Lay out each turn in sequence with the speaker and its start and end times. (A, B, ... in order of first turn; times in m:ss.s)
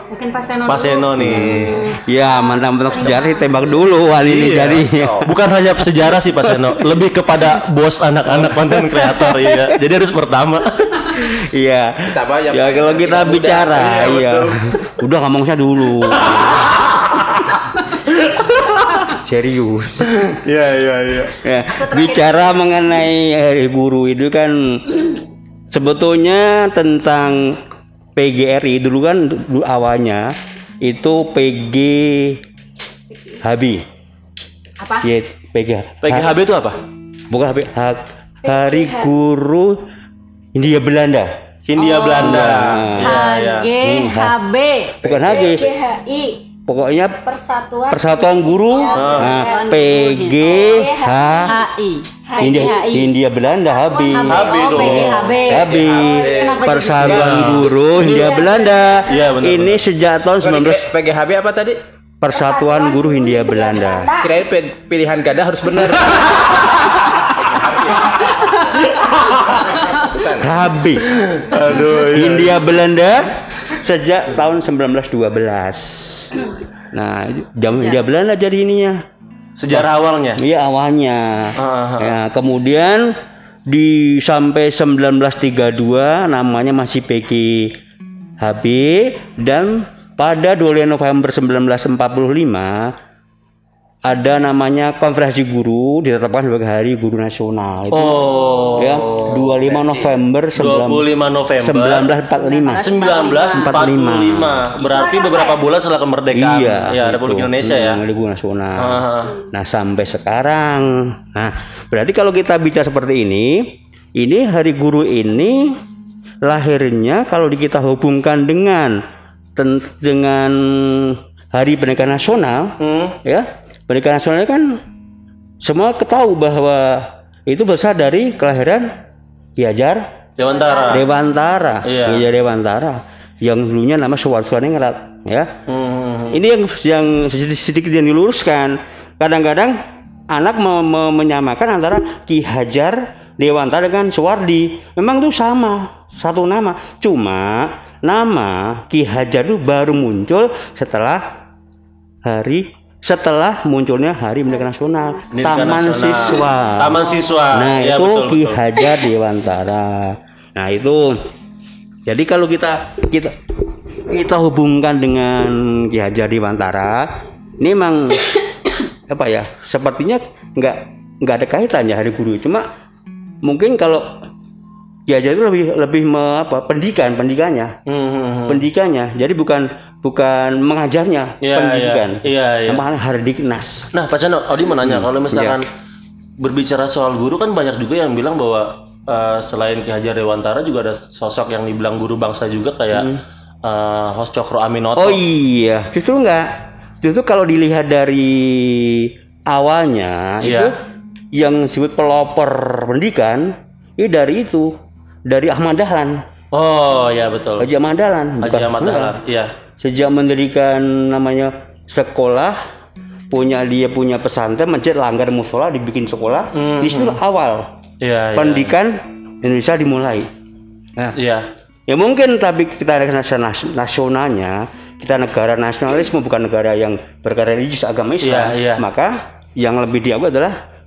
0:00.1-0:03.8 A
0:00.6-0:01.9 B
0:01.2-0:05.3 C
0:01.3-0:01.7 D
0:04.2-0:11.2 B
0:08.4-0:09.7 C
0:11.3-0:16.8 C
0:12.1-0:13.9 D
0:13.7-0:14.7 B
0:16.2-0:17.2 B
0:18.1-0:18.8 B
0:19.2-0:20.3 C
0:20.2-0:21.3 B
0:21.4-0:25.2 C
0:21.7-0:22.7 A
0:25.7-0:27.6 C
0:28.2-0:30.3 C
0:30.8-0:32.4 C
0:33.4-0:33.8 C
0:34.8-0:35.0 A
0:35.0-0:36.4 C
0:36.0-0:36.8 B
0:37.3-0:39.8 C
0:38.4-0:39.1 E
0:40.5-0:41.3 C
0:41.6-0:43.8 B
0:41.9-0:42.4 A
0:41.9-0:43.1 C
0:43.0-0:45.4 A
0:43.8-0:44.3 C
0:45.0-0:45.7 C
0:45.2-0:46.4 E
0:46.7-0:47.2 C
0:47.2-0:49.7 E
0:47.9-0:51.5 C
0:48.8-0:53.2 A
0:48.9-0:49.4 B
0:50.7-0:51.6 E
0:52.2-0:53.0 E
0:52.4-1:00.9 C
0:53.5-0:55.0 E
0:54.1-0:57.3 A
0:54.3-0:56.0 B
0:56.2-0:58.4 D
0:57.0-0:57.7 B
0:58.0-0:59.2 E
0:59.1-0:59.8 B
1:00.4-1:01.8 D
1:02.2-1:04.1 C
1:02.3-1:04.4 E
1:04.2-1:08.6 D
1:09.5-1:10.6 D
1:10.4-1:11.1 C
1:11.2-1:12.6 B
1:12.0-1:19.0 C
1:19.6-1:20.4 B
1:19.7-1:23.1 C
1:21.6-1:22.2 B
1:23.7-1:27.7 C
1:28.4-1:32.9 C
1:34.0-1:41.1 C
1:37.9-1:42.1 B
1:41.6-1:44.7 C
1:42.2-1:44.0 A
1:42.8-1:48.0 B
1:44.8-1:45.6 E
1:46.3-1:55.8 C
1:48.8-1:49.4 B
1:56.4-1:59.0 C
1:59.6-2:04.8 C
2:02.8-2:03.2 B
2:05.6-2:08.9 C
2:09.6-2:10.1 C
2:10.4-2:11.1 B
2:10.9-2:15.6 C
2:11.8-2:12.2 B
2:15.7-2:16.4 B
2:16.3-2:19.8 C
2:20.3-2:31.2 C
2:32.2-2:41.2 C
2:35.3-2:38.6 B
2:42.0-2:43.4 C
2:44.1-2:48.4 C
2:49.1-2:52.7 C
2:53.4-2:54.2 C
2:55.1-2:57.8 C
2:57.9-2:58.6 B
2:58.5-3:03.9 C
3:01.4-3:02.8 B
3:03.9-3:05.7 B
3:04.8-3:05.6 C
3:06.4-3:15.2 B
3:12.9-3:13.2 C
3:15.0-3:20.7 C
3:20.4-3:20.8 B
3:21.3-3:24.7 C
3:25.2-3:26.2 C
3:26.5-3:27.7 B
3:27.6-3:29.1 C
3:28.4-3:29.5 B
3:29.8-3:32.6 C
3:33.3-3:37.7 C
3:36.5-3:37.2 B
3:38.0-3:38.7 B
3:38.4-3:40.3 C
3:41.2-3:41.5 B
3:41.9-3:50.6 C
3:48.2-3:48.8 B